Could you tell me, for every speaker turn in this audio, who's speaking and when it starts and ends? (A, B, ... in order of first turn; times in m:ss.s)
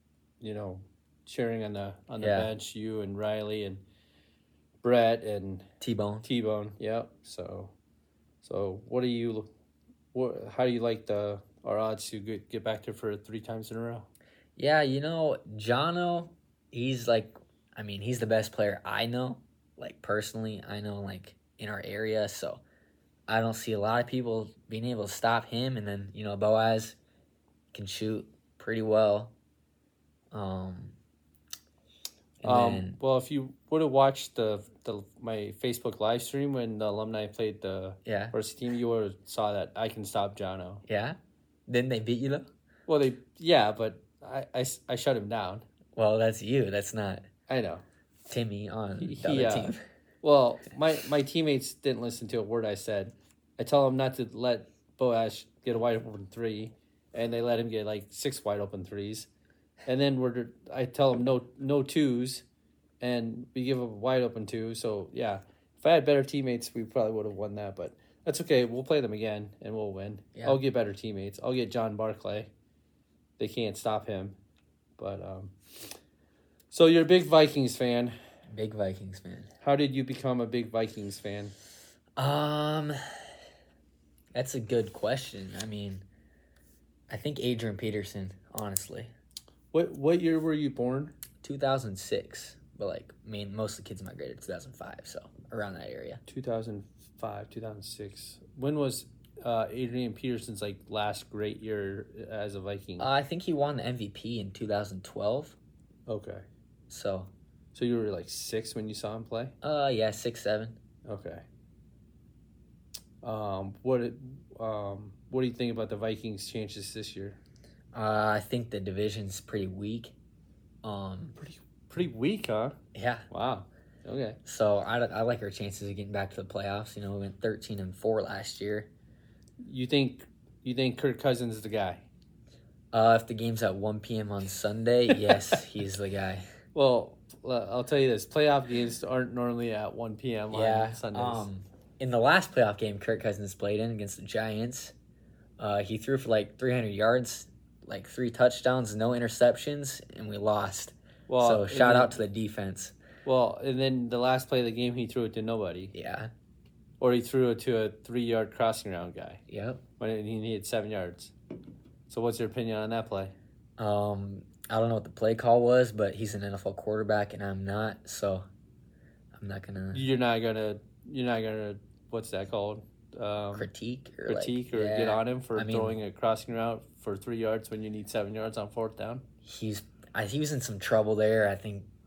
0:00.4-0:03.8 A
0:02.2-0:02.5 B
0:04.8-0:05.7 A
0:05.8-0:06.3 B
0:06.2-0:07.7 A
0:08.4-0:09.5 A
0:10.1-0:14.1 A
0:14.6-0:22.6 B
0:23.3-0:27.0 B
0:27.7-0:29.3 B
0:30.3-0:31.0 B
0:32.4-0:33.0 B
0:32.4-0:40.8 A
0:38.0-0:38.4 B
0:40.9-0:42.5 B
0:42.9-0:45.7 A
0:46.0-0:47.3 B
0:47.5-0:47.8 A
0:48.3-0:49.8 B
0:49.0-0:59.3 A
0:59.9-1:02.4 A
1:03.0-1:12.5 A
1:13.4-1:14.4 A
1:15.0-1:15.5 A
1:16.7-1:18.2 A
1:18.5-1:19.5 B
1:19.6-1:21.5 A
1:22.2-1:23.0 B
1:24.3-1:26.0 B
1:27.1-1:29.1 B
1:29.7-1:31.1 A
1:31.4-1:36.2 B
1:36.3-1:43.1 A
1:43.0-1:45.6 B
1:46.1-1:46.4 A
1:46.9-1:47.3 B
1:47.7-1:49.5 A
1:49.6-1:50.8 B
1:51.1-1:51.4 A
1:53.2-1:57.4 A
1:57.9-2:00.1 B
2:00.8-2:01.4 B
2:01.4-2:02.8 A
2:02.9-2:03.3 B
2:03.3-2:04.4 A
2:04.4-2:08.9 B
2:09.6-2:12.0 A
2:12.9-2:16.5 B
2:16.8-2:21.5 A
2:20.5-2:25.0 B
2:25.6-2:33.0 B
2:31.3-2:32.2 A
2:33.2-2:35.9 A
2:35.9-2:36.3 B
2:37.0-2:39.4 A
2:39.5-2:39.8 B
2:40.0-2:41.3 A
2:42.1-2:43.4 A
2:43.8-2:48.4 B
2:49.4-2:50.0 B
2:49.9-2:53.7 A
2:53.6-2:56.0 B
2:54.3-2:59.2 A
2:59.4-3:01.9 B